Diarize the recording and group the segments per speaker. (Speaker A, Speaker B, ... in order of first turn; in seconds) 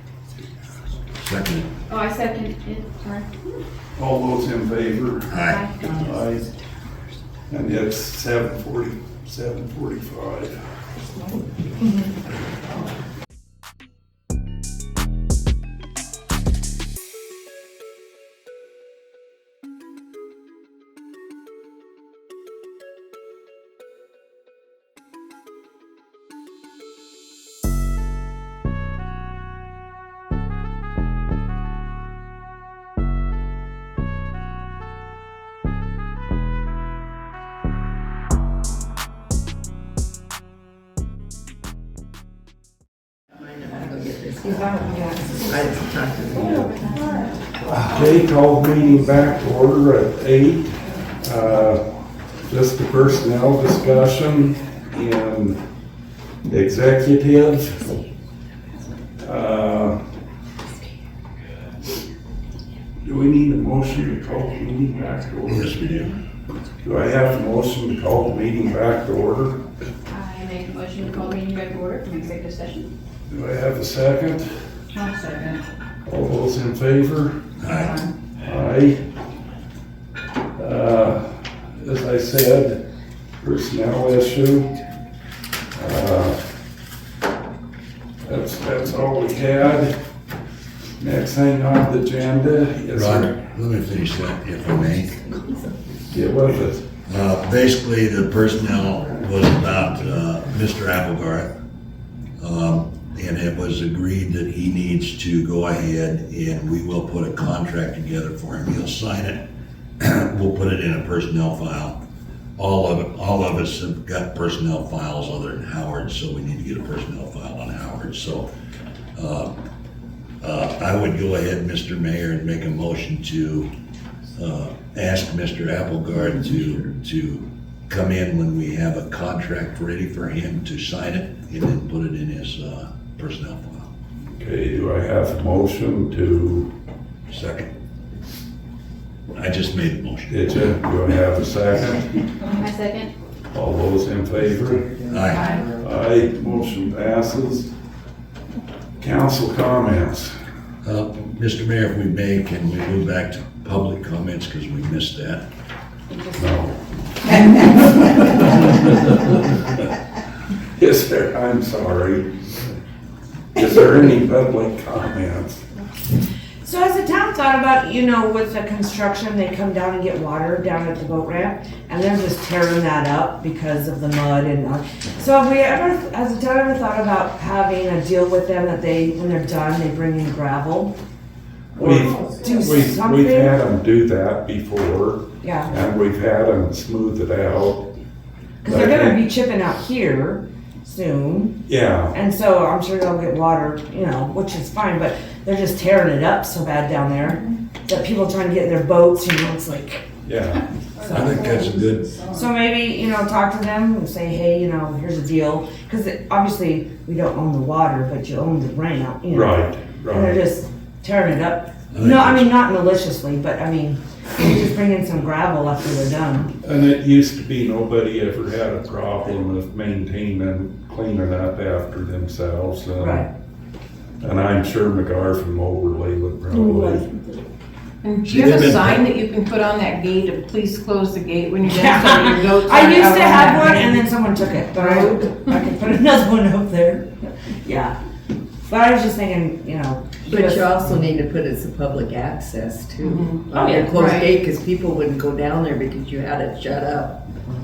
Speaker A: 1.2-1.7, 5.3-5.8, 65.5-66.1, 77.6-78.0, 92.9-95.3, 97.1-101.5, 102.4-109.4, 110.0-112.0, 112.6-118.5, 119.2-119.6, 120.4-123.7, 124.3-133.9, 137.3-137.7, 139.3-140.4, 145.1-145.5, 150.8-155.4, 201.0-202.2, 211.9-212.5, 228.2-229.1
Speaker B: 1.9-3.3, 5.5-6.1, 44.7-45.3, 46.5-47.3, 70.1-72.9, 142.4-143.1, 201.0-202.4
Speaker C: 4.0-6.5, 7.5-10.6, 47.6-51.9, 52.5-55.6, 56.5-57.9, 59.2-60.0, 63.0-66.1, 66.8-69.6, 73.3-74.5, 76.1-77.4, 78.4-79.0, 80.6-82.8, 83.4-84.7, 85.8-86.4, 88.2-89.9, 91.0-93.4, 96.1-96.9, 134.4-136.7, 140.3-142.1, 143.5-144.8, 145.8-147.7, 149.0-150.3, 156.3-156.8, 160.8-162.5, 163.5-165.6, 181.8-187.9, 188.6-189.2, 191.7-192.2, 200.2-200.7, 209.3-210.4, 216.6-223.3, 224.2-227.1
Speaker D: 43.4-46.8, 144.4-146.0, 181.8-182.5, 240.2-247.2
Speaker E: 70.2-70.7, 74.9-75.6, 77.7-78.1, 145.3-145.6, 228.0-234.1, 234.7-235.3, 243.0-244.3
Speaker F: 166.6-180.9, 181.8-183.6, 185.4-185.7, 188.6-191.6, 192.1-200.1, 202.3-216.5, 223.0-223.2, 226.5-227.2, 231.6-237.9, 238.7-240.8, 243.5-243.9